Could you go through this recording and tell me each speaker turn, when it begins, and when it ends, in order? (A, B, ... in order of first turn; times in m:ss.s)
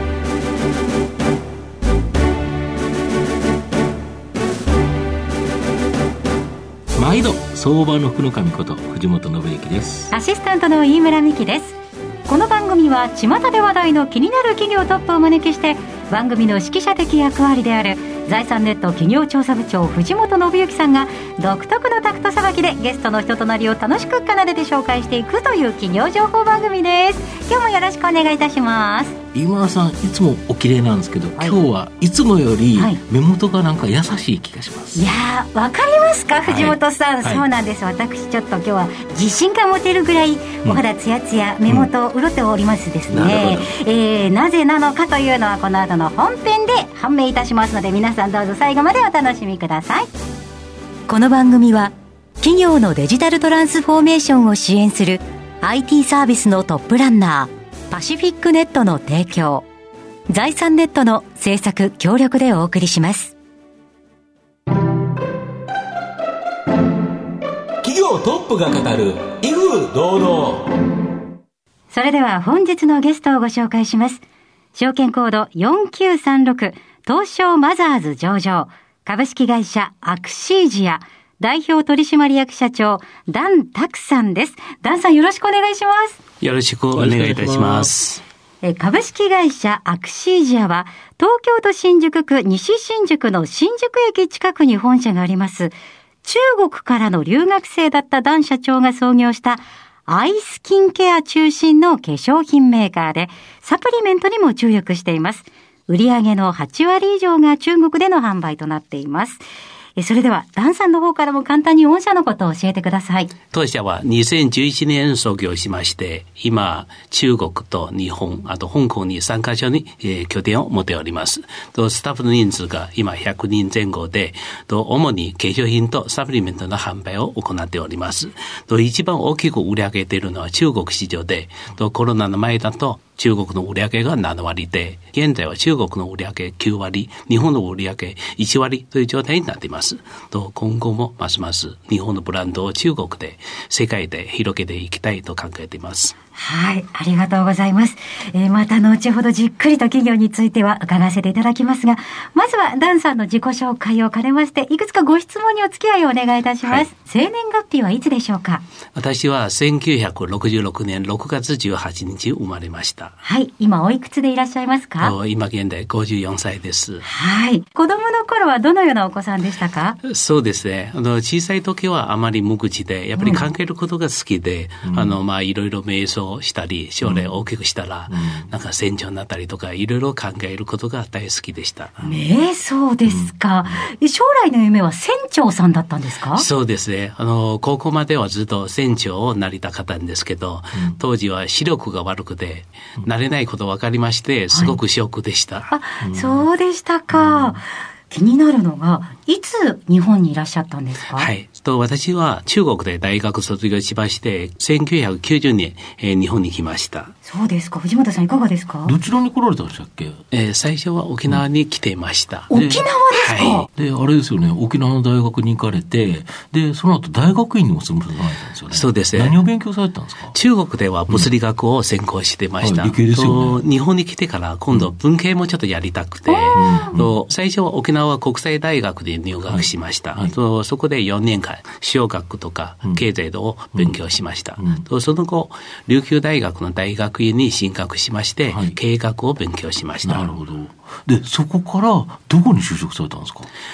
0:06.9-0:10.1 A
0:10.1-0:11.7 B
0:12.2-0:29.2 B
0:29.3-0:35.0 A
0:32.7-0:33.0 B
0:34.9-0:50.1 B
0:36.4-0:37.5 A
0:43.1-0:43.7 A
0:51.1-0:59.6 B
1:00.3-1:03.3 B
1:07.8-1:10.6 C
1:11.9-1:14.2 B
1:14.7-1:26.2 B
1:26.4-1:28.2 D
1:26.9-1:27.9 A
1:28.6-1:49.4 B
1:50.0-1:53.3 B
1:53.5-2:26.1 D
2:26.3-2:38.6 B
2:38.9-2:43.2 D
2:43.2-2:45.1 B
2:45.0-2:47.0 D
2:47.0-2:50.0 B
2:50.0-3:02.2 D
2:53.2-2:53.4 B
2:54.8-2:55.2 A
2:57.0-2:57.3 A
2:58.1-2:58.5 A
3:02.0-3:06.4 B
3:06.3-3:15.7 D
3:15.7-3:21.3 B
3:16.0-3:16.5 A
3:21.1-3:27.1 D
3:27.2-3:29.0 B
3:28.8-3:30.2 A
3:30.3-3:32.5 D
3:32.5-3:33.7 B
3:32.5-3:32.9 A
3:33.1-3:33.7 D
3:33.7-3:40.3 A
3:38.7-3:39.4 D
3:40.3-4:00.3 D
3:42.6-3:43.6 A
3:46.3-3:46.9 B
3:46.5-3:47.1 A
3:49.4-3:50.3 A
3:54.6-3:54.8 A
3:58.4-3:58.8 A
4:00.0-4:03.5 A